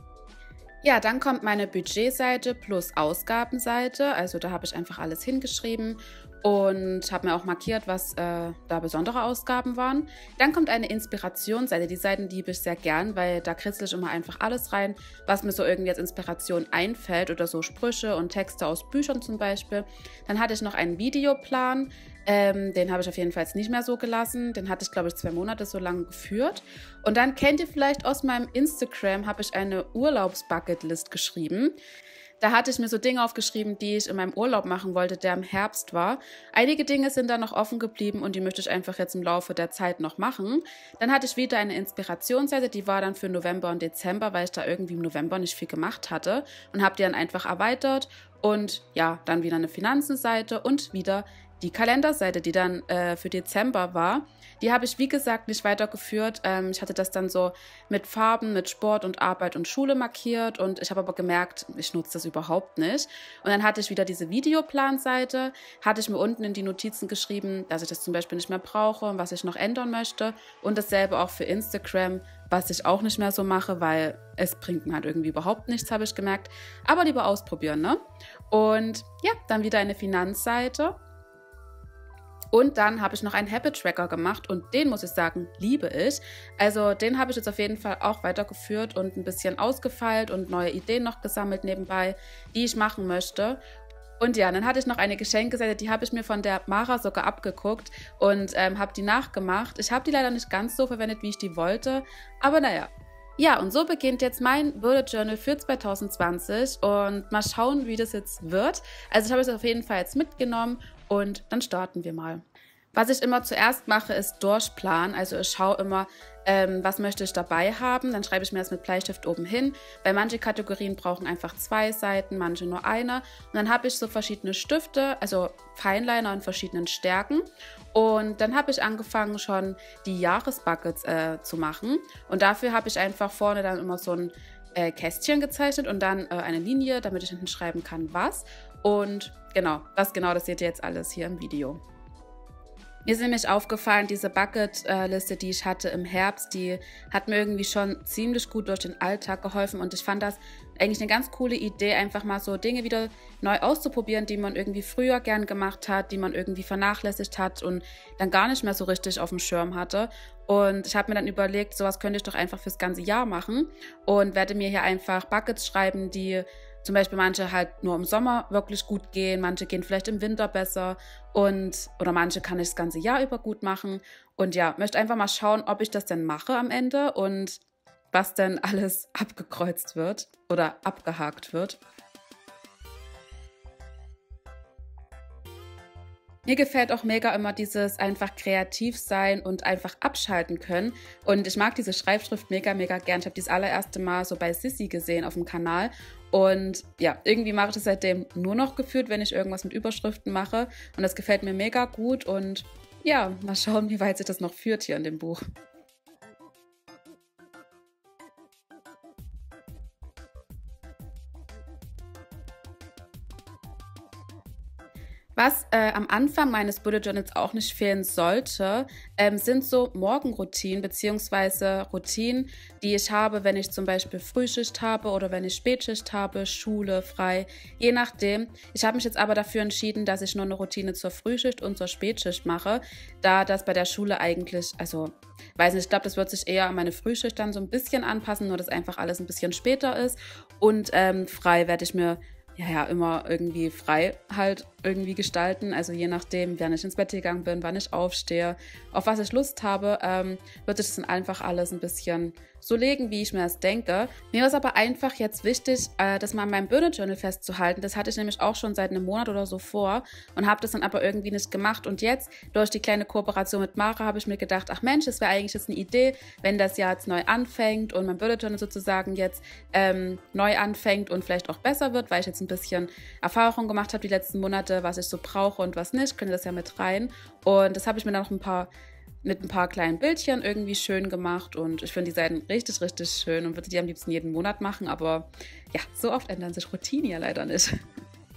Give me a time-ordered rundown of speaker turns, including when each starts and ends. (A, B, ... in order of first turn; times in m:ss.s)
0:00.8-0:31.8 A
0:32.4-1:21.0 A
1:22.5-1:33.6 A
1:34.2-1:52.4 A
1:52.9-2:21.8 A
2:23.0-2:57.6 A
2:58.1-3:01.8 A
3:06.4-3:25.4 A
3:35.4-4:38.7 A
4:39.2-4:47.8 A